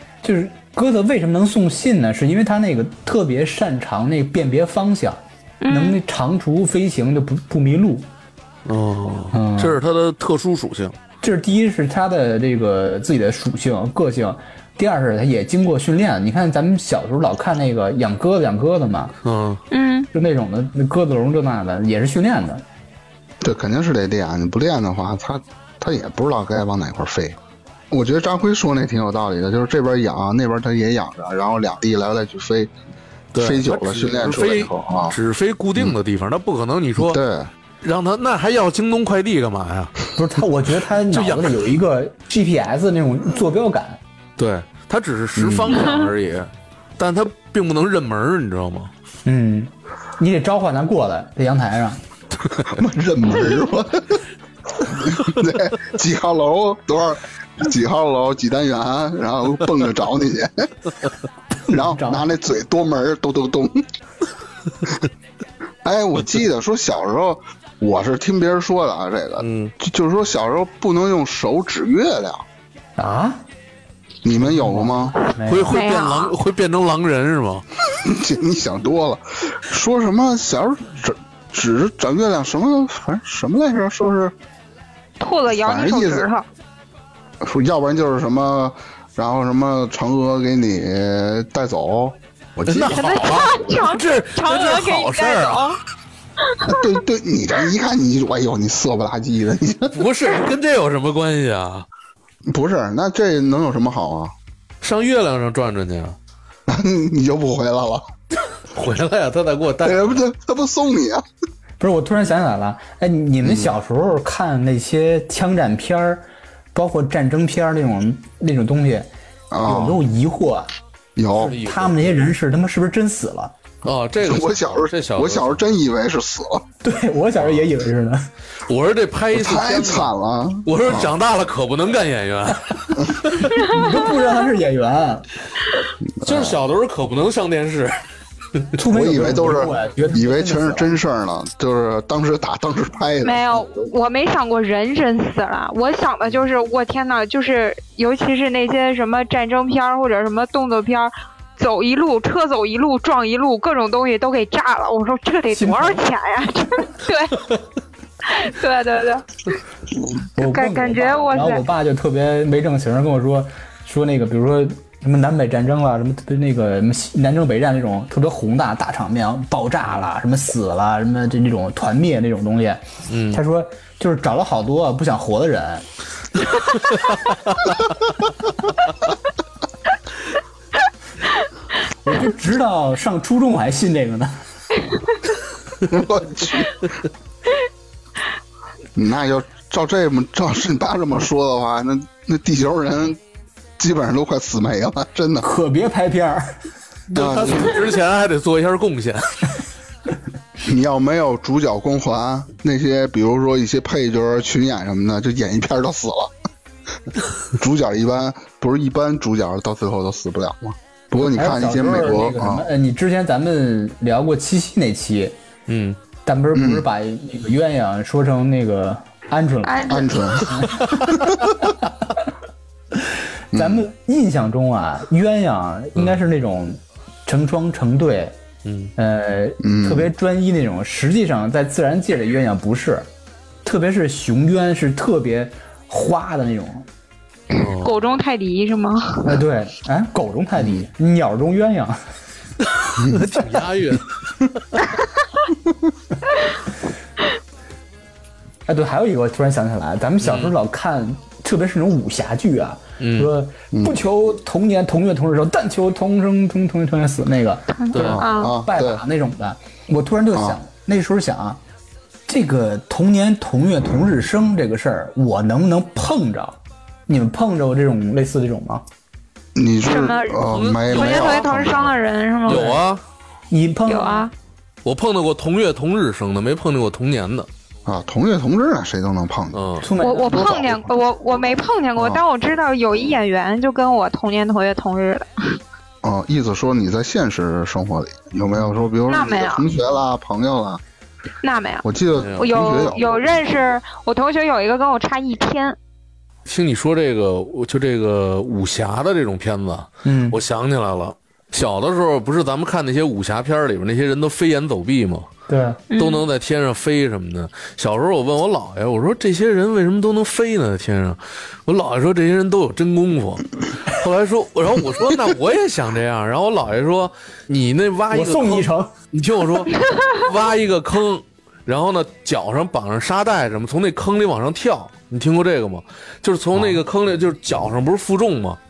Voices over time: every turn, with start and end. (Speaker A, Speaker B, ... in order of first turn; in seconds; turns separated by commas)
Speaker A: 0.2-8.1, Speaker B: 5.6-6.0, Speaker C: 8.7-10.9, Speaker A: 9.3-9.8, Speaker A: 11.2-19.1, Speaker C: 19.2-19.6, Speaker B: 19.7-20.1, Speaker A: 20.1-22.6, Speaker D: 23.4-27.4, Speaker D: 27.9-32.7, Speaker C: 33.3-37.2, Speaker D: 33.3-35.1, Speaker D: 37.0-37.5, Speaker C: 37.8-40.0, Speaker A: 40.1-44.0, Speaker C: 41.1-41.7, Speaker C: 44.4-48.9, Speaker D: 45.4-45.8, Speaker A: 49.2-52.0, Speaker D: 52.7-54.2, Speaker D: 54.8-60.7, Speaker A: 61.7-62.2, Speaker D: 61.7-63.8, Speaker D: 65.8-72.4, Speaker C: 69.4-69.7, Speaker A: 73.0-73.4, Speaker D: 74.2-75.1, Speaker A: 74.4-75.8, Speaker C: 75.5-77.6, Speaker B: 75.7-76.3, Speaker D: 78.0-84.3, Speaker B: 85.2-86.5, Speaker D: 85.5-86.3, Speaker D: 87.4-93.3, Speaker C: 92.6-95.8, Speaker B: 92.9-95.8, Speaker B: 96.4-96.9, Speaker D: 96.6-100.1, Speaker C: 99.9-101.9, Speaker D: 102.5-104.3, Speaker C: 104.8-106.2, Speaker D: 106.7-108.1, Speaker C: 108.7-110.2, Speaker D: 109.8-111.2, Speaker A: 111.8-119.1, Speaker D: 113.4-113.7, Speaker D: 119.5-120.0, Speaker A: 119.6-120.7, Speaker D: 121.2-121.6, Speaker C: 121.4-122.1, Speaker A: 121.5-123.5, Speaker C: 123.8-125.7, Speaker D: 124.2-126.6, Speaker A: 126.8-128.3, Speaker C: 127.4-127.7, Speaker C: 128.7-130.1, Speaker D: 129.3-131.1, Speaker C: 130.6-133.6, Speaker D: 133.0-133.3, Speaker A: 133.5-135.3, Speaker B: 133.6-133.9, Speaker D: 136.2-136.6, Speaker C: 136.2-138.0, Speaker A: 138.8-140.9, Speaker D: 138.9-143.9, Speaker B: 143.2-157.5, Speaker A: 155.5-156.0, Speaker B: 158.2-159.5, Speaker A: 160.3-175.8, Speaker B: 160.4-161.6, Speaker C: 173.1-173.4, Speaker A: 182.0-184.4, Speaker D: 185.8-186.9, Speaker D: 188.9-193.2, Speaker D: 193.8-195.4, Speaker A: 195.4-196.5, Speaker C: 197.1-199.3, Speaker D: 197.1-197.8, Speaker D: 200.6-206.3, Speaker D: 207.5-212.7, Speaker A: 211.3-215.3, Speaker C: 215.7-216.0, Speaker A: 216.2-220.8, Speaker D: 216.5-216.8, Speaker B: 219.7-220.4, Speaker D: 219.9-221.5, Speaker D: 223.5-223.8, Speaker A: 223.5-228.4, Speaker C: 228.6-228.9, Speaker A: 228.9-233.1, Speaker D: 229.6-230.1, Speaker A: 233.6-236.8, Speaker C: 237.5-237.9, Speaker B: 237.8-239.3, Speaker A: 239.2-242.0, Speaker D: 240.6-240.8, Speaker C: 242.7-244.8, Speaker D: 243.0-243.2, Speaker A: 248.7-261.6, Speaker C: 250.2-250.5, Speaker C: 253.0-253.3, Speaker D: 253.7-254.0, Speaker C: 257.9-258.2, Speaker D: 258.0-259.0, Speaker B: 258.2-258.5, Speaker D: 260.3-260.6, Speaker A: 262.3-268.8, Speaker D: 269.6-272.0, Speaker B: 269.9-272.8, Speaker C: 270.5-271.6, Speaker C: 272.4-273.0, Speaker A: 273.5-274.3, Speaker B: 273.9-274.3, Speaker C: 274.8-277.5, Speaker D: 277.9-279.6, Speaker C: 279.5-279.9, Speaker A: 279.8-280.9, Speaker B: 280.0-285.6, Speaker D: 280.3-280.7, Speaker D: 281.9-282.2, Speaker D: 286.0-290.8, Speaker B: 289.1-289.6, Speaker B: 291.4-295.8, Speaker D: 291.8-293.0, Speaker C: 292.1-293.1, Speaker C: 296.4-305.3, Speaker A: 300.0-300.4, Speaker A: 305.5-305.8, Speaker B: 305.9-306.2, Speaker C: 305.9-328.6, Speaker A: 318.1-318.9